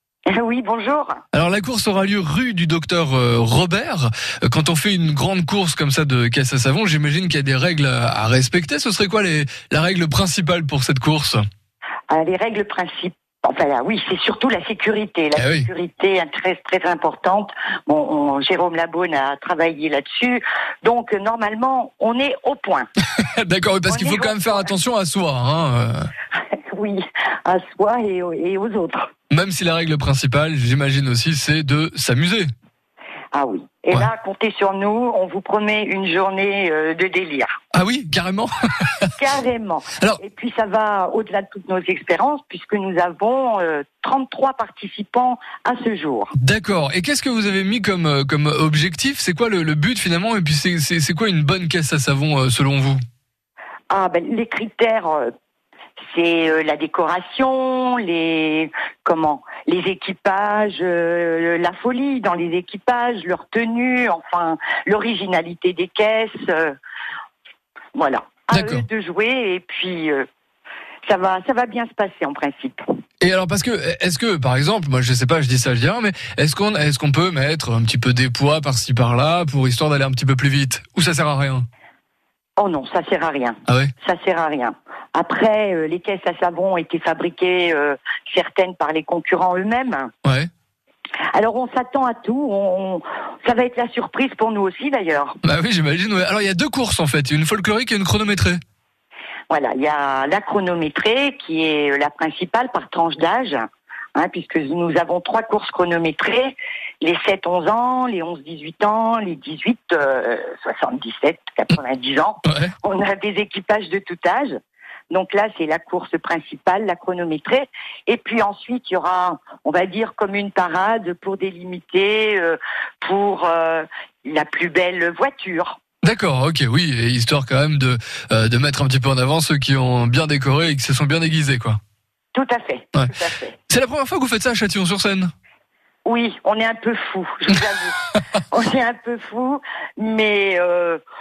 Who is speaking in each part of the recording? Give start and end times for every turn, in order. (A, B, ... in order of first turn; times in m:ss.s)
0:00.3-0:01.2 A
0:01.3-0:11.4 B
0:12.1-0:22.9 A
0:15.4-0:15.7 B
0:23.2-0:26.1 B
0:23.9-0:24.7 A
0:26.5-0:29.1 A
0:29.3-0:32.5 B
0:33.3-0:37.5 A
0:37.7-0:39.1 B
0:39.2-0:46.3 A
0:46.4-0:53.0 B
0:53.9-0:55.3 A
0:56.0-1:06.7 A
1:07.9-1:10.3 A
1:08.5-1:08.8 B
1:11.0-1:12.8 A
1:13.2-1:21.6 B
1:22.6-1:30.1 A
1:30.2-1:30.5 B
1:31.3-1:35.4 A
1:35.4-1:38.6 B
1:39.5-1:54.5 A
1:52.4-1:52.7 B
1:55.1-2:05.8 A
2:06.0-2:11.8 B
2:12.3-2:13.5 A
2:13.7-2:15.3 B
2:16.0-2:21.0 A